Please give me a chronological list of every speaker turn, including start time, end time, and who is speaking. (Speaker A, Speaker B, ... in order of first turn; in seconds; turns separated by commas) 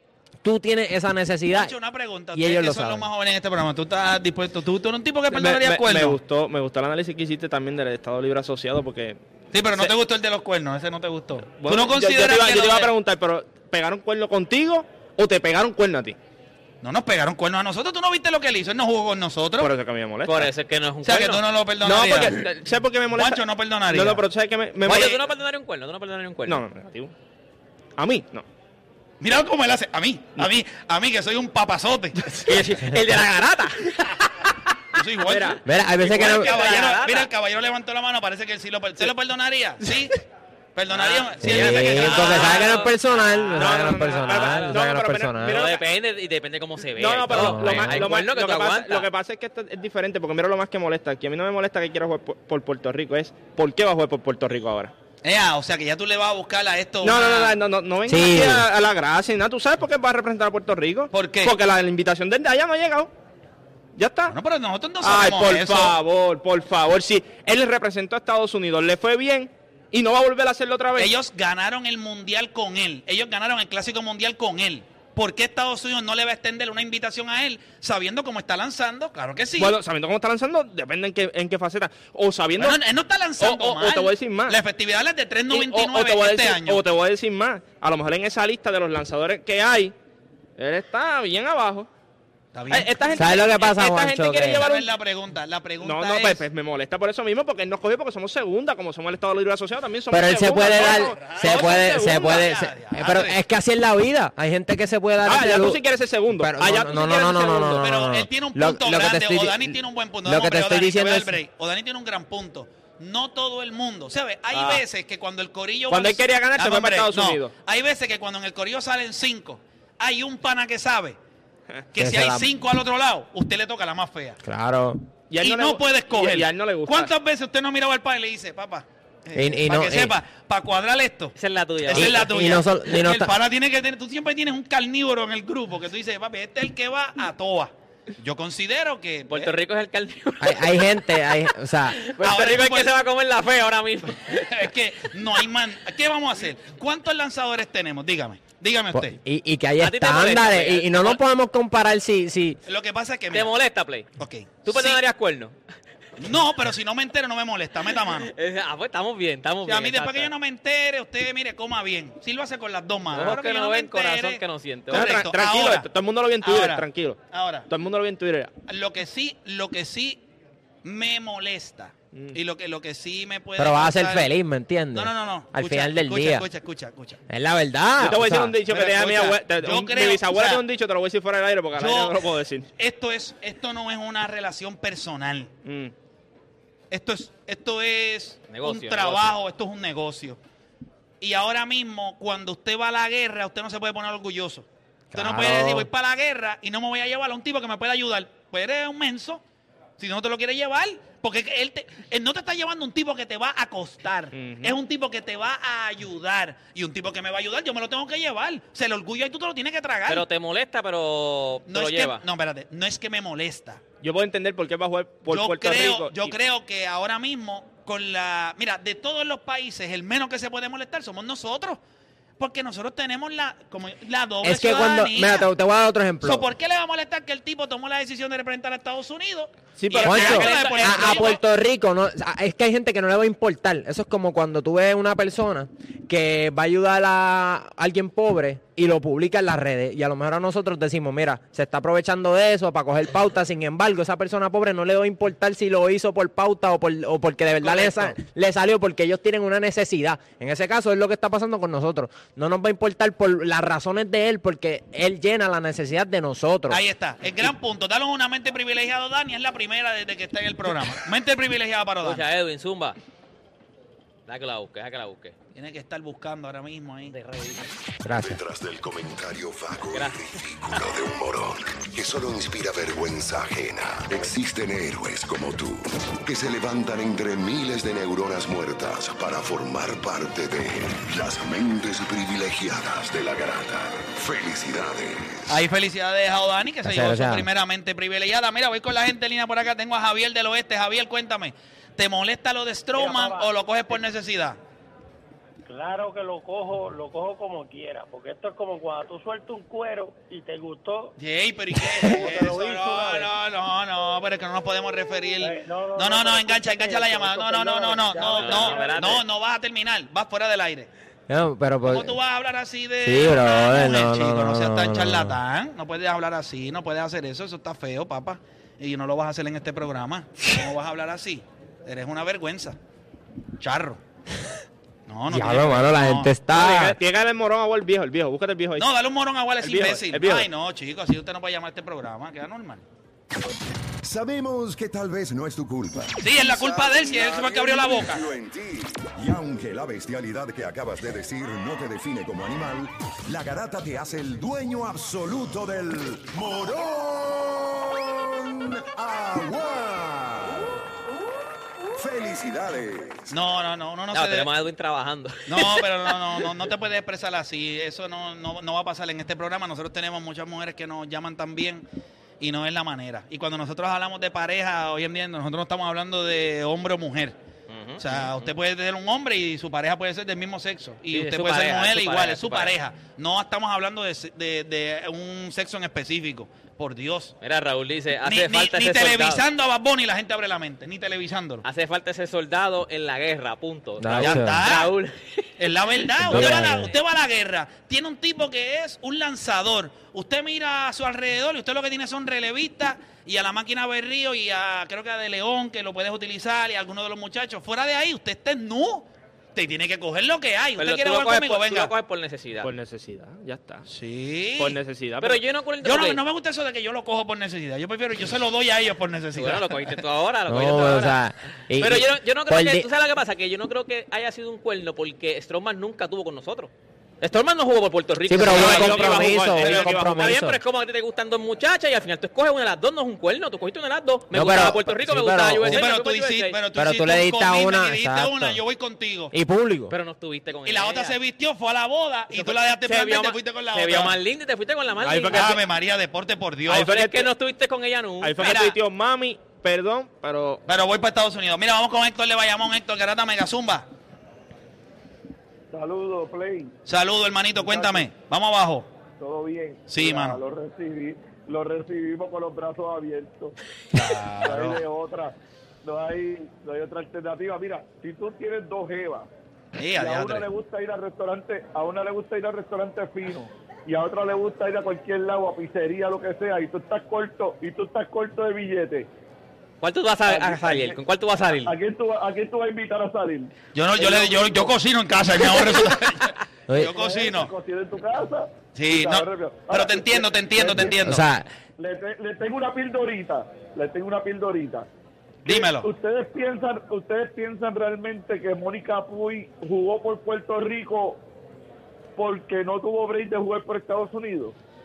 Speaker A: 0.4-1.7, Speaker B: 1.5-6.2, Speaker A: 2.3-3.1, Speaker C: 5.3-9.9, Speaker B: 9.5-12.9, Speaker C: 11.4-16.2, Speaker B: 16.8-19.7, Speaker C: 19.6-20.5, Speaker D: 20.2-21.5, Speaker B: 21.0-22.4, Speaker C: 21.8-25.2, Speaker B: 23.1-24.2, Speaker B: 24.8-25.1, Speaker D: 25.0-26.6, Speaker C: 26.4-27.1, Speaker C: 28.0-28.4, Speaker B: 29.2-32.5, Speaker D: 32.5-34.7, Speaker B: 35.0-40.2, Speaker C: 35.2-35.6, Speaker A: 35.6-36.6, Speaker D: 36.2-37.3, Speaker C: 39.8-40.1, Speaker B: 40.7-42.8, Speaker D: 40.9-42.9, Speaker A: 41.4-45.7, Speaker D: 43.5-44.7, Speaker C: 43.5-45.8, Speaker D: 45.4-49.1, Speaker C: 46.8-54.9, Speaker A: 47.3-48.1, Speaker B: 55.2-57.5, Speaker C: 57.0-63.1, Speaker A: 58.1-58.7, Speaker B: 61.1-61.5, Speaker C: 64.0-64.3, Speaker B: 64.3-65.9, Speaker C: 65.0-71.1, Speaker B: 71.0-79.7, Speaker C: 79.6-82.8, Speaker B: 82.6-86.8, Speaker C: 83.4-84.6, Speaker C: 85.5-90.0, Speaker C: 90.6-91.9, Speaker B: 92.5-93.0, Speaker C: 92.7-95.0, Speaker A: 93.1-94.7, Speaker B: 94.6-96.4, Speaker C: 95.8-102.3, Speaker A: 100.1-105.8, Speaker B: 100.6-103.4, Speaker C: 105.2-107.9, Speaker A: 106.3-111.4, Speaker B: 107.8-121.2, Speaker C: 114.5-114.8, Speaker C: 115.9-117.5, Speaker B: 121.9-124.4, Speaker A: 122.0-122.5, Speaker A: 124.4-125.0, Speaker C: 125.3-127.1, Speaker B: 125.4-131.3, Speaker A: 129.3-130.2, Speaker D: 131.3-132.3, Speaker B: 131.9-139.5, Speaker A: 131.9-133.3, Speaker D: 139.3-140.8, Speaker A: 140.4-142.0, Speaker D: 141.9-144.7, Speaker B: 142.2-142.9, Speaker B: 144.3-149.2, Speaker A: 148.9-152.6, Speaker D: 149.8-151.2, Speaker B: 152.7-153.5, Speaker D: 153.3-154.1, Speaker B: 154.2-155.0, Speaker D: 154.6-155.6, Speaker B: 156.2-158.3, Speaker D: 157.8-160.3, Speaker B: 159.6-165.9, Speaker D: 163.1-165.1, Speaker C: 164.9-168.5, Speaker B: 166.4-167.7, Speaker B: 168.7-170.2, Speaker B: 170.8-174.3, Speaker C: 172.1-172.4, Speaker A: 173.6-176.5, Speaker B: 174.9-177.2, Speaker A: 177.3-178.6, Speaker C: 178.0-182.7, Speaker B: 178.7-180.6, Speaker B: 181.8-182.2, Speaker B: 182.8-185.5, Speaker C: 185.6-185.9, Speaker B: 186.9-190.4, Speaker D: 188.5-189.4, Speaker B: 191.2-199.4, Speaker A: 195.1-195.9, Speaker B: 200.0-210.3, Speaker C: 204.3-204.8, Speaker D: 210.1-212.2, Speaker B: 211.7-213.8, Speaker C: 214.0-216.4, Speaker B: 215.3-221.8, Speaker B: 222.4-225.5, Speaker A: 224.4-226.4, Speaker B: 226.2-231.4, Speaker C: 229.8-230.7, Speaker A: 230.0-256.8, Speaker D: 230.5-231.3, Speaker B: 247.6-248.1, Speaker B: 256.7-262.3, Speaker D: 262.0-263.0, Speaker D: 264.3-265.3, Speaker B: 265.5-267.1, Speaker D: 267.1-267.7, Speaker A: 268.0-268.4, Speaker E: 268.2-269.5, Speaker D: 269.9-271.0, Speaker E: 272.4-275.6, Speaker E: 276.3-277.6, Speaker E: 279.1-279.4, Speaker E: 279.9-280.3, Speaker E: 280.9-285.1, Speaker B: 285.5-294.6, Speaker A: 286.8-287.5, Speaker F: 292.9-293.5, Speaker F: 295.6-301.1, Speaker B: 301.2-310.9, Speaker F: 302.0-303.3, Speaker F: 305.4-309.1, Speaker D: 308.4-309.2, Speaker A: 311.3-312.2, Speaker B: 311.8-322.8, Speaker A: 313.0-315.4, Speaker B: 323.6-324.0, Speaker B: 325.1-326.3, Speaker A: 325.3-327.0, Speaker C: 326.5-328.9, Speaker B: 328.8-332.8, Speaker C: 329.6-330.5, Speaker E: 334.0-350.6, Speaker B: 336.2-338.3, Speaker E: 351.9-353.3, Speaker B: 353.3-354.5, Speaker D: 354.1-356.5, Speaker B: 355.5-361.9, Speaker B: 362.4-367.4, Speaker D: 367.7-368.5, Speaker B: 368.0-377.4, Speaker D: 371.1-372.8, Speaker D: 377.4-379.4, Speaker B: 378.2-381.6, Speaker D: 381.6-386.2, Speaker A: 384.0-384.7, Speaker B: 384.2-384.9, Speaker B: 385.6-401.9, Speaker A: 386.2-386.9, Speaker D: 400.8-402.7, Speaker C: 402.6-403.8, Speaker B: 403.9-404.8, Speaker C: 404.6-405.4, Speaker D: 405.2-406.2, Speaker B: 405.8-409.9, Speaker D: 409.3-411.2, Speaker A: 410.5-412.9, Speaker D: 411.8-426.6, Speaker A: 418.2-420.6, Speaker C: 418.4-420.4, Speaker A: 424.3-425.8, Speaker B: 425.6-429.3, Speaker A: 426.7-428.6, Speaker A: 429.3-429.9, Speaker D: 429.9-431.2, Speaker B: 430.6-434.2, Speaker D: 432.3-435.5, Speaker C: 435.0-435.7, Speaker B: 435.3-436.8, Speaker C: 436.6-437.3, Speaker D: 436.8-438.7, Speaker C: 438.2-440.6, Speaker B: 438.4-438.7, Speaker B: 440.7-443.9, Speaker G: 445.7-446.7, Speaker B: 446.9-448.9, Speaker G: 447.5-448.1, Speaker G: 449.2-453.5, Speaker B: 449.9-450.4, Speaker B: 453.9-454.8, Speaker G: 454.4-459.3, Speaker B: 459.8-460.5, Speaker G: 460.0-469.1, Speaker D: 469.8-471.7, Speaker G: 470.3-471.0, Speaker G: 471.6-474.7, Speaker B: 473.7-477.5, Speaker A: 476.7-476.9, Speaker G: 476.8-481.1, Speaker B: 478.7-481.2, Speaker A: 481.0-481.5, Speaker G: 481.8-484.9, Speaker B: 485.4-485.9, Speaker G: 485.4-491.2, Speaker G: 492.2-494.5